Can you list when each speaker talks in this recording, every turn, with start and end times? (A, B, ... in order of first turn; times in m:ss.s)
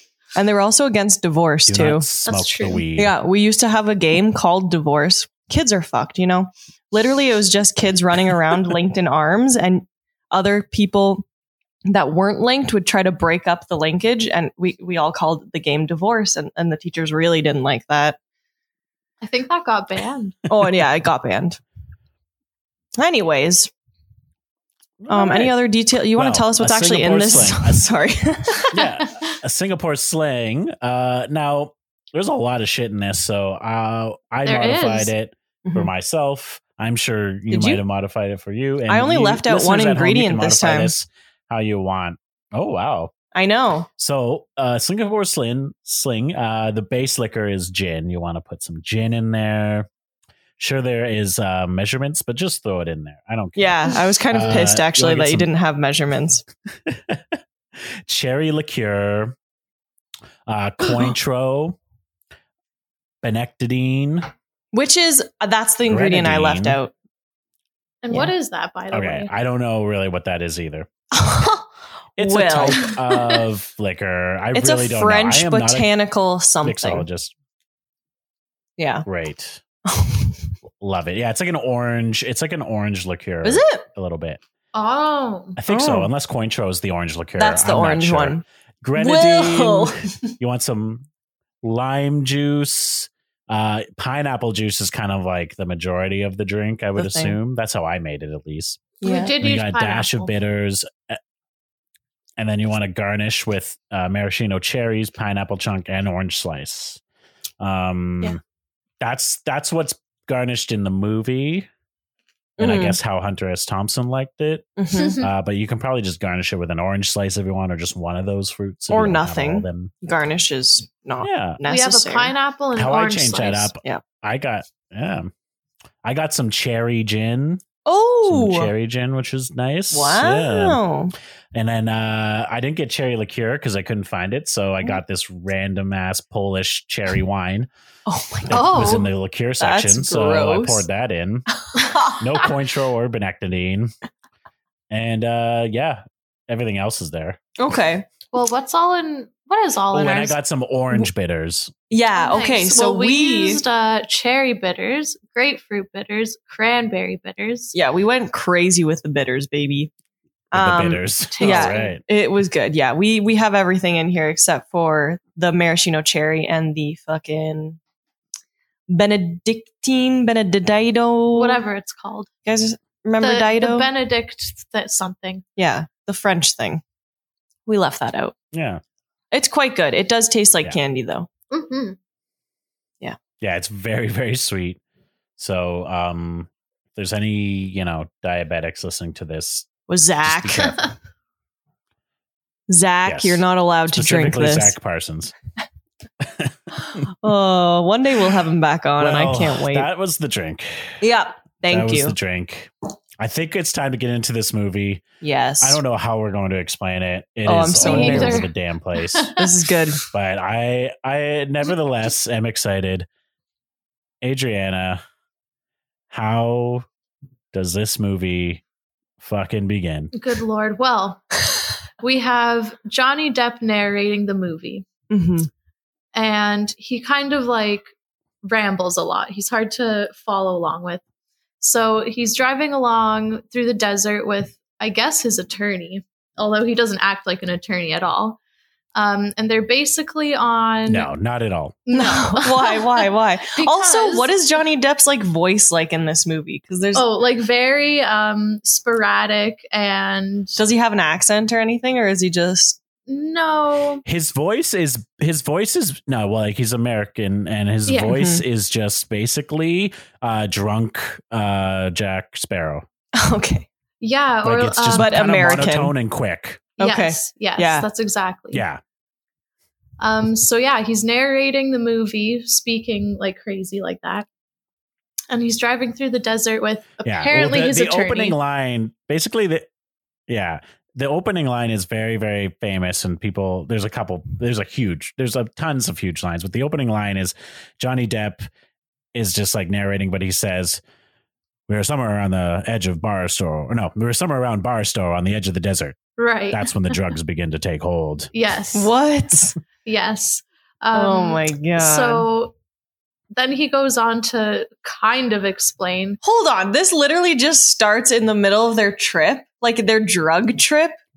0:00.4-0:02.0 A
0:01.7-0:03.1 B
0:02.2-0:02.8 C
0:03.0-0:11.3 A
0:11.9-0:18.2 A
0:19.2-0:20.4 C
0:20.5-0:21.6 A
0:23.0-0:23.7 A
0:25.0-0:25.5 B
0:25.1-0:28.7 A
0:26.2-0:27.8 B
0:28.7-0:43.1 B
0:34.4-0:35.1 C
0:35.6-0:35.9 A
0:37.5-0:37.8 A
0:38.9-0:40.9 A
0:43.3-0:43.9 A
0:44.0-0:49.9 B
0:50.6-0:55.5 B
0:53.6-0:56.4 A
0:56.8-0:59.4 B
1:00.5-1:01.8 B
1:03.2-1:04.3 B
1:04.7-1:06.9 A
1:05.9-1:06.8 B
1:08.0-1:09.3 C
1:08.9-1:10.9 B
1:11.1-1:12.9 A
1:12.2-1:15.9 B
1:13.1-1:13.4 C
1:14.5-1:17.1 A
1:16.6-1:17.3 B
1:18.8-1:19.1 A
1:19.1-1:19.6 B
1:19.9-1:20.4 A
1:20.8-1:24.4 B
1:23.4-1:23.8 A
1:24.7-1:25.6 C
1:25.6-1:31.1 B
1:25.7-1:26.1 A
1:27.4-1:28.4 A
1:29.0-1:30.3 A
1:31.6-1:41.2 B
1:37.0-1:37.4 A
1:39.0-1:39.3 A
1:39.0-1:40.3 C
1:42.4-1:47.0 B
1:47.6-1:48.4 B
1:49.0-1:51.7 B
1:52.6-1:53.0 A
1:52.6-1:59.9 B
1:54.8-1:55.2 A
1:55.0-1:55.3 C
1:58.9-2:02.3 A
2:01.2-2:01.6 B
2:01.6-2:03.7 C
2:02.8-2:05.3 B
2:06.0-2:07.6 B
2:07.8-2:08.7 A
2:08.2-2:10.8 B
2:09.9-2:11.1 A
2:11.5-2:17.7 B
2:18.1-2:19.0 A
2:18.5-2:21.5 B
2:18.5-2:19.1 C
2:19.6-2:20.8 A
2:21.7-2:22.2 A
2:22.0-2:23.9 B
2:24.9-2:27.4 B
2:27.6-2:28.1 A
2:28.3-2:30.4 C
2:29.9-2:31.7 B
2:31.9-2:33.6 A
2:32.2-2:37.7 C
2:37.7-2:39.9 A
2:40.5-2:47.8 A
2:40.5-2:42.0 B
2:41.3-2:42.0 C
2:48.9-2:51.6 A
2:51.3-2:52.3 C
2:52.5-2:53.9 A
2:53.2-2:55.4 C
2:55.6-2:56.8 A
2:57.7-2:58.3 A
2:58.5-2:58.8 B
2:59.3-3:01.3 A
3:01.5-3:02.0 C
3:03.4-3:04.8 B
3:05.4-3:09.7 B
3:09.9-3:10.8 A
3:10.2-3:10.8 B
3:10.6-3:10.9 C
3:12.7-3:14.8 A
3:13.0-3:15.4 B
3:16.2-3:17.1 B
3:17.2-3:19.9 A
3:19.0-3:21.0 B
3:21.0-3:22.2 A
3:21.7-3:25.0 B
3:25.2-3:25.8 A
3:25.6-3:29.3 B
3:27.5-3:28.5 A
3:27.8-3:29.4 C
3:29.4-3:30.0 A
3:30.1-3:33.1 B
3:34.2-3:35.0 B
3:36.1-3:36.9 B
3:37.5-3:38.6 B
3:39.2-3:40.1 B
3:40.1-3:41.3 C
3:42.0-3:44.9 C
3:45.1-3:45.5 A
3:46.1-3:47.9 C
3:48.4-3:51.0 C
3:51.6-3:58.4 C
3:59.0-4:01.1 C
4:00.9-4:01.8 B
4:01.9-4:04.3 C
4:01.9-4:07.1 A
4:07.0-4:10.6 C
4:10.6-4:12.8 A
4:13.1-4:14.0 C
4:14.1-4:22.9 B
4:17.9-4:18.2 C
4:18.1-4:18.4 A
4:23.2-4:23.7 A
4:24.0-4:25.2 C
4:24.4-4:26.6 B
4:24.9-4:25.9 A
4:26.8-4:28.6 C
4:26.8-4:27.9 A
4:28.5-4:28.8 B
4:30.0-4:34.3 C
4:35.3-4:38.4 C
4:37.0-4:39.7 B
4:40.3-4:48.5 B
4:49.1-4:50.8 B
4:51.7-4:56.0 B
4:56.2-4:56.7 C
4:56.5-4:58.3 B
4:58.3-4:58.9 C
4:58.7-4:59.6 A
4:59.8-5:02.6 C
5:00.9-5:02.3 A
5:03.3-5:06.2 C
5:06.2-5:11.0 A